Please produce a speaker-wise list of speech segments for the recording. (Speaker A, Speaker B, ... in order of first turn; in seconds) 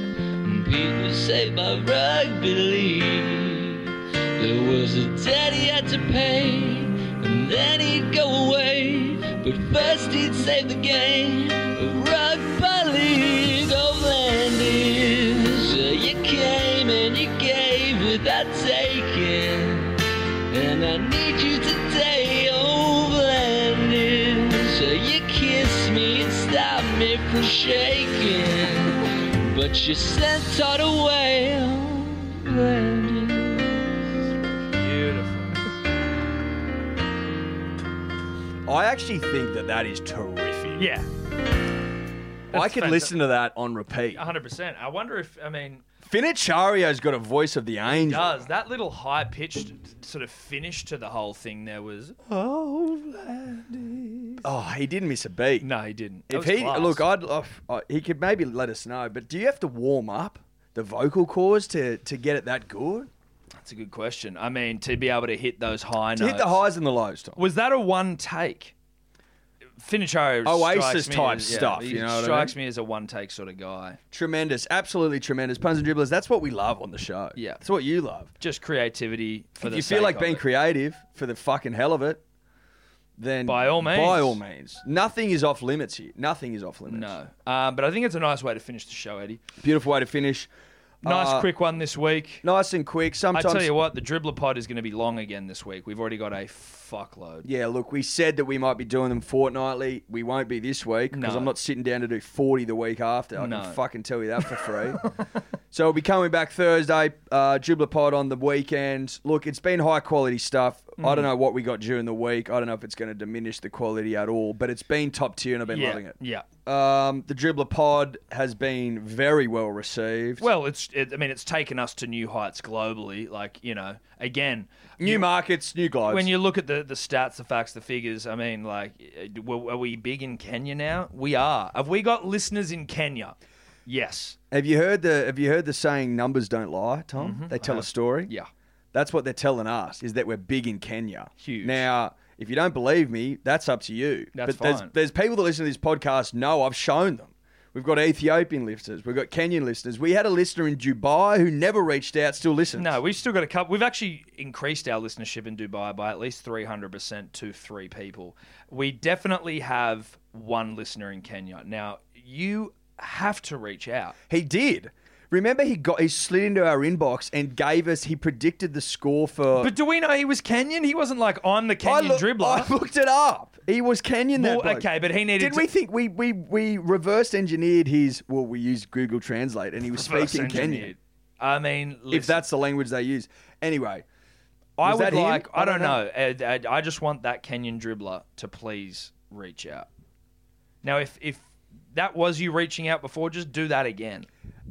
Speaker A: 0.4-34.3
Speaker B: 34.7-35.7, 40.8-41.1, 42.5-43.1, 44.1-45.8, 47.9-54.5, 55.6-57.0, 63.6-66.6, 67.4-68.7, 69.8-74.0, 77.3-77.6, 78.4-80.4, 83.5-84.4, 86.9-89.4, 91.0-92.4, 93.3-97.5, 101.1-101.5, 103.3-103.8, 111.0-111.3, 115.7-116.5, 120.4-125.3, 126.1-134.4, 137.2-138.5, 141.4-141.8, 144.3-144.9, 152.8-164.1, 169.6-172.7, 174.3-175.7, 179.9-182.4, 184.8-189.9, 190.8-194.3
Speaker C: 38.6-40.9, 42.5-44.2, 46.0-48.3, 54.4-55.7, 56.3-63.1, 66.2-67.4, 70.4-72.5, 74.1-78.3, 79.6-82.2, 83.2-87.1, 89.6-90.5, 91.0-91.5, 92.4-93.7, 97.4-105.1, 105.7-120.5, 125.0-126.3, 134.5-138.3, 138.9-153.0, 164.3-169.7, 171.8-180.9, 182.1-184.0, 184.8-186.0